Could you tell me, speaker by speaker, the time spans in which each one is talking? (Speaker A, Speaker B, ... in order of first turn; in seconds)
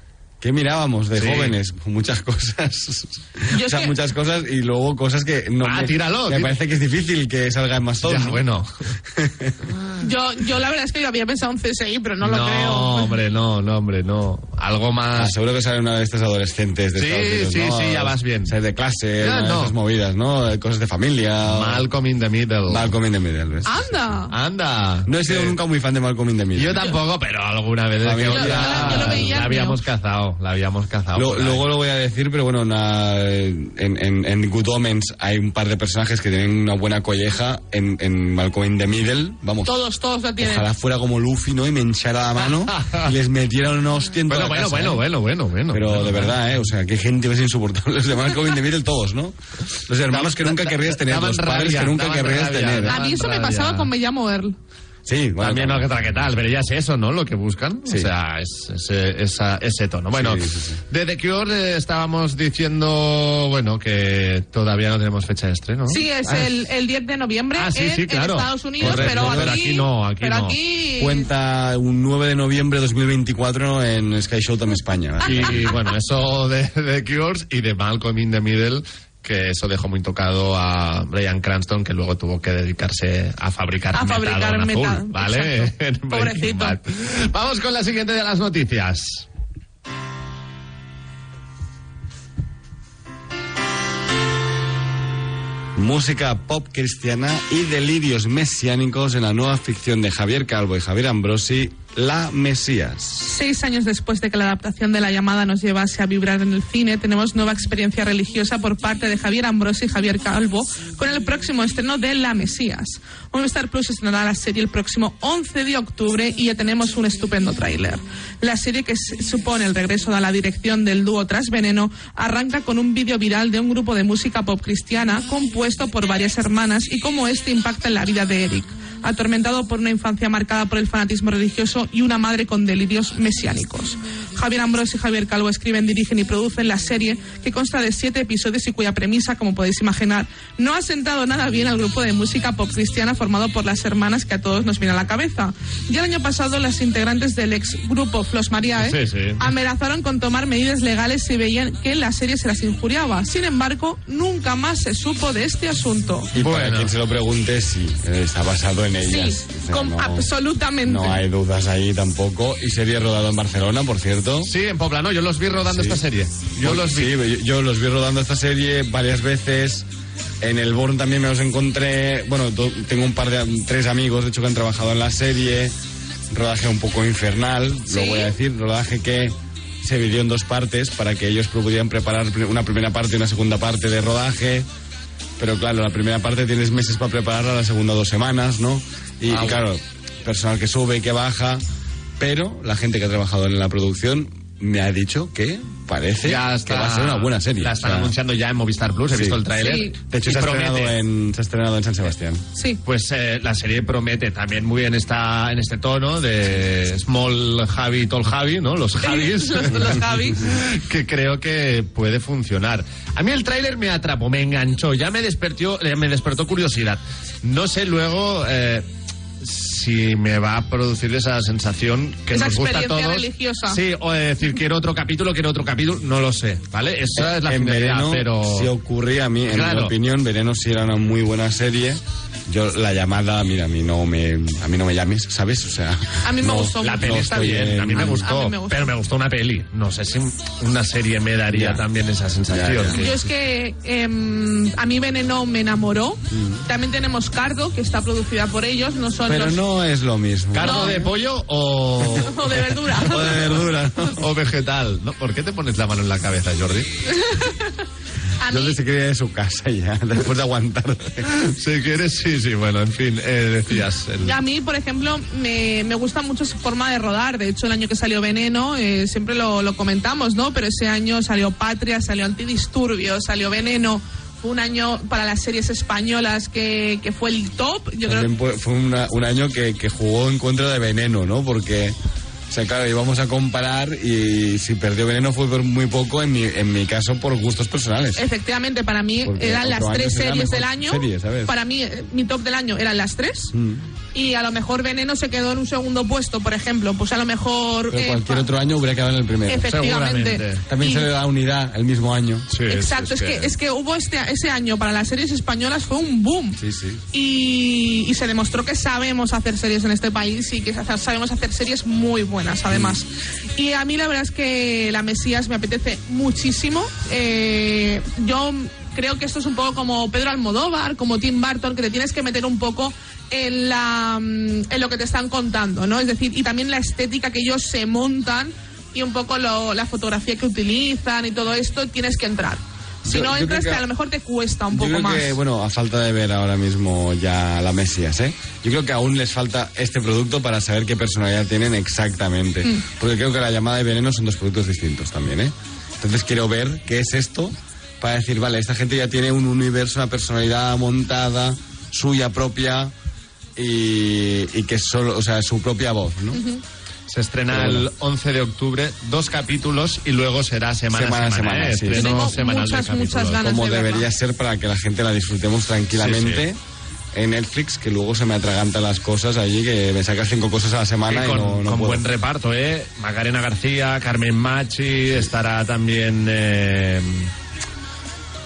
Speaker A: 0.4-8.4, 9.0-9.7, 15.1-21.9, 22.7-24.1, 25.1-26.9, 28.0-29.4, 31.1-39.7, 40.4-45.0, 45.7-53.0, 55.0-55.9, 60.1-60.8, 68.8-69.7, 71.0-75.7, 95.8-103.2, 156.3-160.3, 160.8-164.5, 165.6-166.0, 166.6-169.9, 170.4-175.7, 176.3-184.7, 185.4-191.6, 192.2-198.1, 199.1-199.4, 200.0-202.4, 227.1-238.2, 241.5-241.8, 242.5-243.0, 246.3-246.6, 249.3-251.1, 253.0-254.2, 258.4-261.3, 278.0-281.9, 282.5-288.2, 289.2-291.5, 293.5-293.8, 297.9-299.7, 300.7-302.5, 306.6-307.0, 312.7-313.0, 333.0-333.8, 334.7-352.9, 353.6-356.4, 357.5-357.9, 360.9-362.3, 363.4-366.6, 367.1-372.0
Speaker B: 1.1-1.5, 5.6-6.5, 8.0-8.9, 12.2-15.3, 16.9-18.5, 19.2-19.7, 21.5-22.9, 24.3-25.5, 26.5-31.6, 42.6-43.1, 44.3-46.4, 50.1-53.9, 55.4-66.5, 67.5-70.6, 75.2-89.2, 148.8-149.4, 156.3-156.9, 164.4-167.1, 189.3-189.6, 196.2-201.0, 202.8-218.9, 219.4-228.7, 229.5-229.9, 236.8-243.2, 250.5-252.5, 253.2-253.5, 254.0-256.9, 261.3-264.4, 299.7-300.6, 302.5-303.5, 357.1-363.4, 365.9-366.4, 371.1-377.3
Speaker C: 3.5-3.9, 10.0-13.2, 23.6-24.3, 28.3-29.8, 39.6-40.7, 52.9-54.5, 65.9-71.3, 83.9-86.8, 103.2-156.3, 159.0-161.2, 177.9-178.3, 199.6-199.9, 202.5-202.8, 209.0-210.4, 222.3-223.8, 236.2-238.9, 242.9-249.6, 250.6-251.1, 252.1-253.5, 257.1-257.8, 258.4-258.8, 264.2-278.3, 288.1-293.5, 294.1-298.5, 299.5-301.1, 302.7-306.6, 307.1-335.4, 356.3-356.6, 361.9-364.1